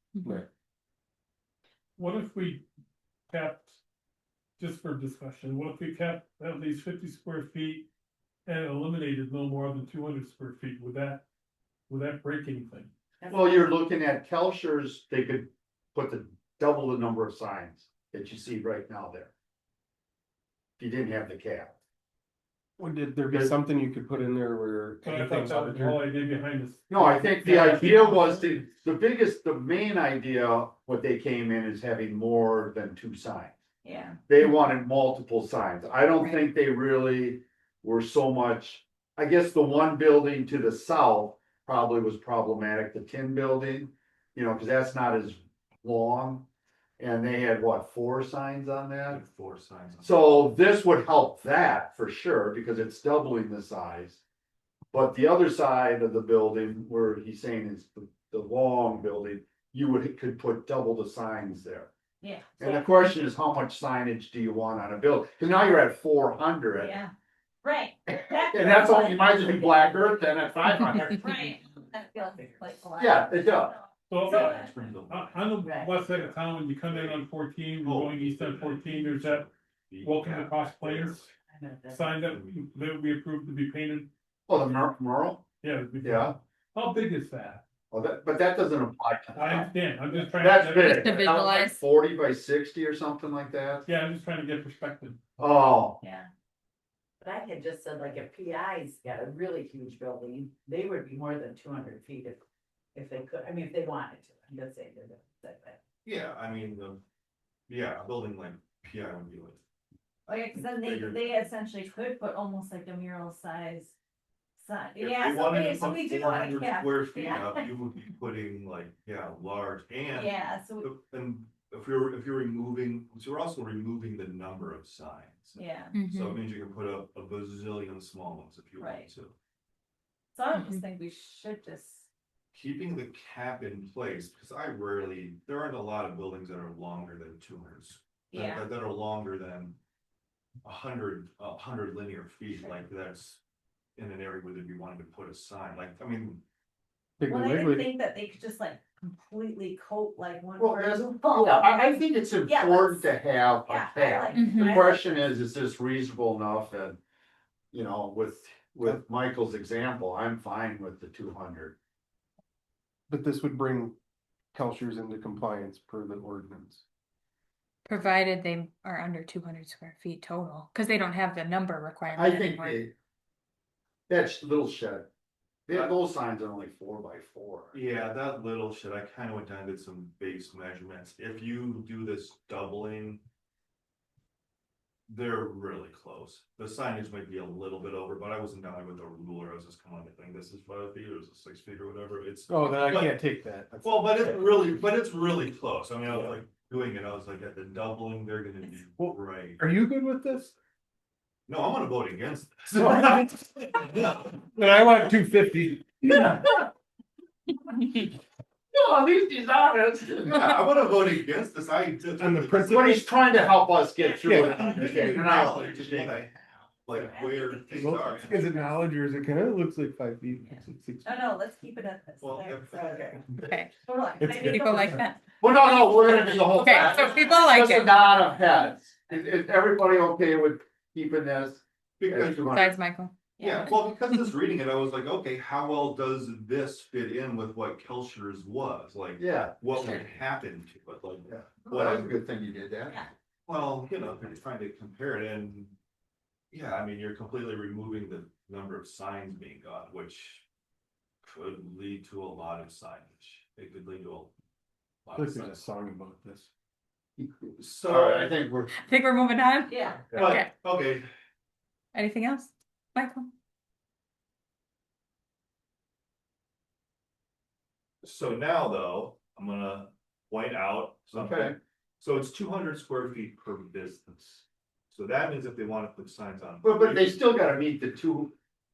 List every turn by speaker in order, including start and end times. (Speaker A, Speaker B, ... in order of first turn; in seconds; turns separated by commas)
Speaker A: 0.1-0.4, Speaker B: 2.0-2.6, Speaker B: 3.3-3.8, Speaker B: 4.6-7.9, Speaker B: 8.5-11.2, Speaker B: 11.9-12.9, Speaker C: 13.3-19.3, Speaker C: 20.8-21.8, Speaker D: 22.8-26.0, Speaker C: 23.3-23.6, Speaker B: 25.0-28.5, Speaker C: 26.9-33.5, Speaker E: 33.8-34.2, Speaker C: 34.3-46.5, Speaker C: 47.0-49.2, Speaker F: 49.1-50.4, Speaker C: 50.0-54.2, Speaker C: 54.9-61.9, Speaker E: 62.2-62.8, Speaker C: 62.6-67.0, Speaker E: 66.8-67.1, Speaker E: 67.6-69.9, Speaker C: 68.5-71.4, Speaker E: 71.2-74.7, Speaker G: 71.2-72.9, Speaker C: 73.0-73.8, Speaker B: 74.1-79.5, Speaker F: 74.2-77.3, Speaker G: 75.6-76.0, Speaker F: 77.8-81.3, Speaker B: 80.0-81.3, Speaker G: 81.5-82.3, Speaker B: 81.9-84.1, Speaker F: 82.2-82.7, Speaker C: 84.5-85.4, Speaker B: 85.6-87.6, Speaker C: 86.0-86.3, Speaker C: 87.9-89.7, Speaker B: 89.3-91.0, Speaker C: 90.3-93.9, Speaker A: 90.8-91.8, Speaker B: 93.9-95.2, Speaker C: 95.4-96.0, Speaker E: 96.0-96.3, Speaker G: 97.2-102.4, Speaker G: 103.0-105.8, Speaker F: 106.0-107.0, Speaker F: 107.7-109.6, Speaker E: 110.3-113.9, Speaker F: 110.5-111.4, Speaker E: 114.6-117.7, Speaker F: 115.0-129.4, Speaker E: 120.1-120.9, Speaker E: 125.6-126.0, Speaker A: 125.9-126.4, Speaker E: 128.8-129.1, Speaker E: 130.3-132.1, Speaker A: 130.5-130.8, Speaker F: 132.5-139.8, Speaker E: 138.3-138.7, Speaker F: 140.6-143.4, Speaker F: 144.0-146.4, Speaker D: 147.2-147.9, Speaker E: 147.3-153.1, Speaker C: 150.6-157.0, Speaker E: 153.7-155.2, Speaker A: 154.3-154.9, Speaker C: 157.7-161.8, Speaker D: 163.1-164.0, Speaker D: 164.5-166.8, Speaker A: 167.9-172.8, Speaker C: 172.1-172.9, Speaker C: 174.1-175.1, Speaker C: 175.7-177.8, Speaker F: 177.7-183.2, Speaker F: 185.1-193.2, Speaker D: 192.5-194.4, Speaker F: 193.8-199.7, Speaker D: 196.1-196.4, Speaker D: 199.0-200.5, Speaker F: 201.5-204.5, Speaker D: 202.8-203.3, Speaker D: 204.5-206.4, Speaker C: 206.1-206.6, Speaker C: 208.7-210.5, Speaker F: 210.3-213.1, Speaker D: 212.2-212.9, Speaker C: 212.6-216.3, Speaker D: 214.2-215.1, Speaker F: 214.4-218.5, Speaker E: 216.9-218.8, Speaker D: 217.8-221.2, Speaker E: 221.1-225.2, Speaker F: 222.2-223.4, Speaker A: 223.4-223.7, Speaker A: 224.4-225.0, Speaker C: 225.4-232.8, Speaker E: 226.1-226.8, Speaker A: 226.4-228.0, Speaker F: 232.0-232.5, Speaker A: 232.4-234.3, Speaker E: 233.4-233.7, Speaker F: 233.4-242.1, Speaker C: 239.2-240.0, Speaker A: 239.8-240.0, Speaker C: 241.3-243.1, Speaker F: 243.5-245.8, Speaker F: 246.5-250.4, Speaker F: 251.2-254.3, Speaker F: 255.0-255.6, Speaker D: 255.2-256.5, Speaker C: 257.2-258.7, Speaker F: 257.6-258.4, Speaker A: 258.8-260.5, Speaker E: 259.7-260.1, Speaker F: 260.2-261.1, Speaker A: 261.9-263.3, Speaker F: 268.0-277.2, Speaker C: 271.1-271.6, Speaker C: 276.6-278.3